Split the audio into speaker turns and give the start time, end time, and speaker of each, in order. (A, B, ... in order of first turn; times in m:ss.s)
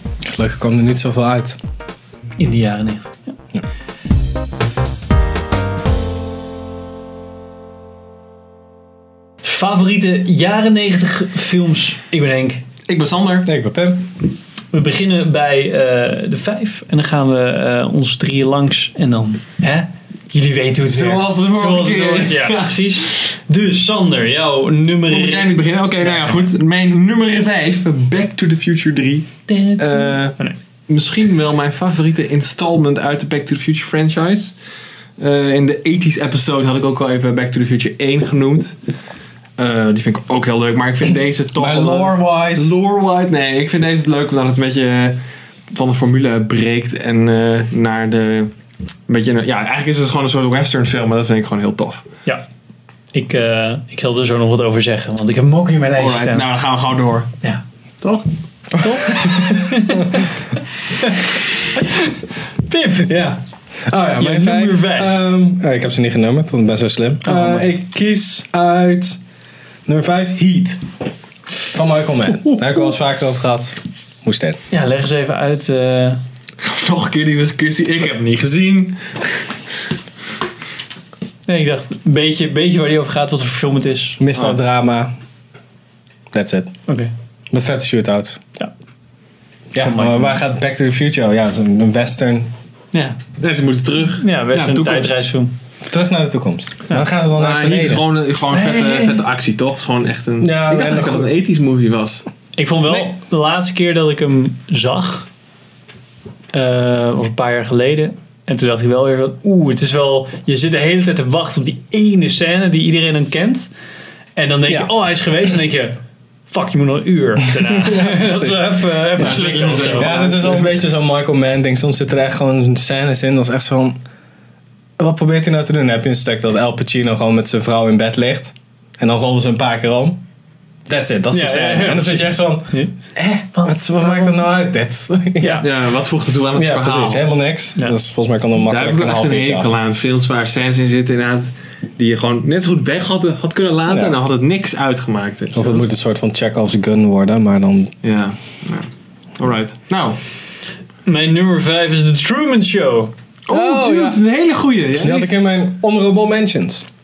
0:00.2-0:01.6 A
0:02.4-0:03.2 B
0:09.4-0:12.6 B
0:12.9-0:13.5 C
0:13.4-0:14.0 A
0:14.7-0:26.4 B
0:20.9-0:23.2 C
0:25.1-0:34.5 C
0:29.5-0:30.6 B
0:35.2-0:38.8 C
0:39.6-0:45.2 C
0:41.6-0:42.8 A
0:45.7-0:48.5 C
0:49.1-0:52.0 C
0:53.1-0:56.4 B
0:56.0-0:57.3 C
0:57.4-0:58.2 B
0:58.8-1:02.0 B
0:58.8-0:59.7 C
1:02.7-1:03.2 B
1:03.0-1:09.2 A
1:04.2-1:05.2 B
1:07.2-1:07.7 B
1:09.9-1:10.8 A
1:11.7-1:14.6 A
1:14.7-1:16.2 B
1:16.6-1:19.5 C
1:21.5-1:24.2 B
1:24.2-1:25.1 A
1:26.3-1:26.7 A
1:26.9-1:27.1 B
1:27.5-1:28.4 A
1:29.7-1:32.5 A
1:29.8-1:30.4 B
1:33.4-1:35.2 C
1:34.2-1:35.5 B
1:35.8-1:38.0 A
1:37.4-1:42.2 C
1:38.5-1:39.1 B
1:40.4-1:41.3 A
1:42.6-1:45.3 B
1:46.5-1:53.7 B
1:54.4-1:56.0 B
1:56.5-2:00.3 B
1:57.8-2:04.0 A
1:59.2-2:00.7 C
2:05.0-2:10.2 A
2:10.9-2:15.7 A
2:11.3-2:12.9 B
2:13.5-2:14.4 B
2:15.4-2:15.7 B
2:15.6-2:17.3 C
2:16.6-2:19.7 A
2:18.6-2:25.8 C
2:23.9-2:24.2 A
2:25.5-2:27.9 A
2:28.0-2:30.2 C
2:31.1-2:33.1 B
2:33.5-2:35.3 C
2:33.5-2:34.2 A
2:35.0-2:36.9 A